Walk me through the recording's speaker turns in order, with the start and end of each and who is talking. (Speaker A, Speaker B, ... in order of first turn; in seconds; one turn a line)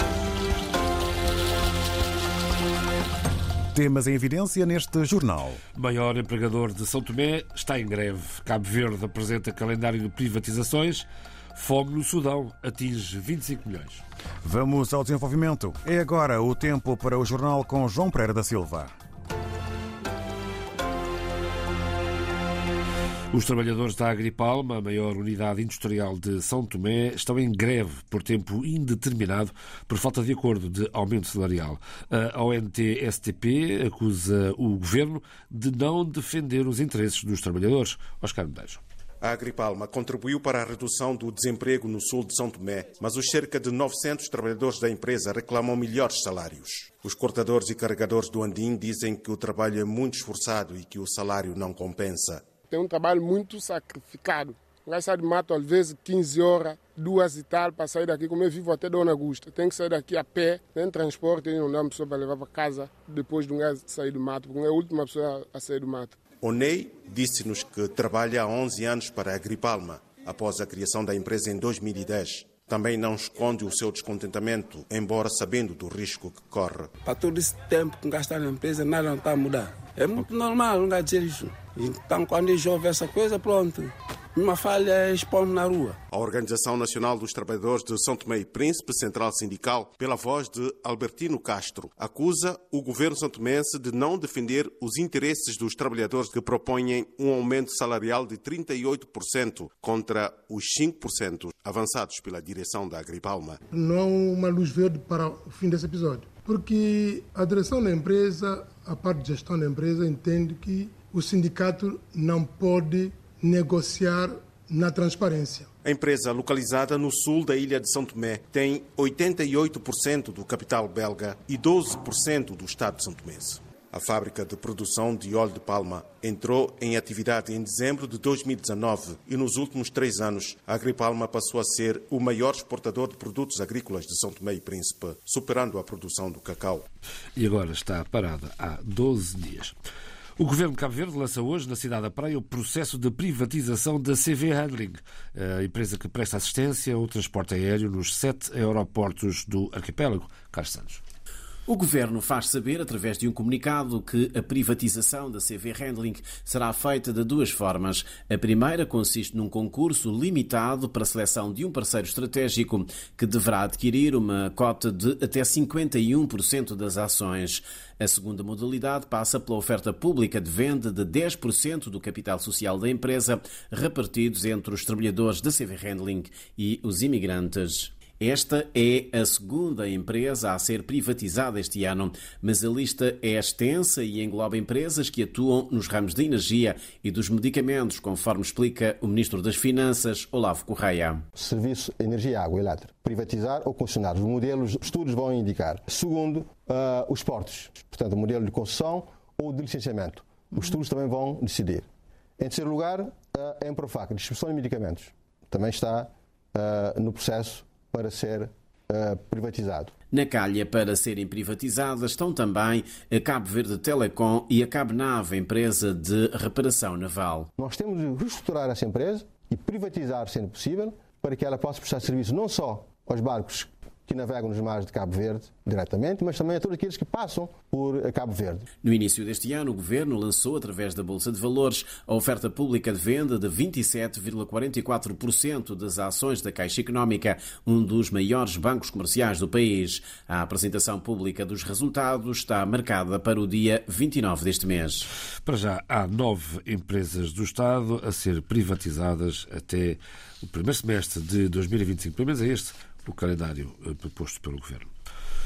Speaker A: 3.7-5.6
Speaker B: 5.8-14.0
Speaker A: 14.4-18.9
Speaker B: 23.3-38.8
Speaker C: 39.2-52.5
Speaker D: 52.7-66.2
Speaker C: 66.4-76.9
Speaker E: 77.0-86.0
Speaker C: 86.1-103.6
Speaker F: 103.7-115.7
Speaker C: 115.8-136.9
Speaker B: 137.4-139.8
Speaker B: 140.4-151.0
Speaker G: 151.7-191.2
Speaker H: 191.4-209.9
Speaker G: 210.1-217.5
Speaker H: 217.6-228.7
Speaker G: 228.8-245.1
Speaker B: 245.4-254.9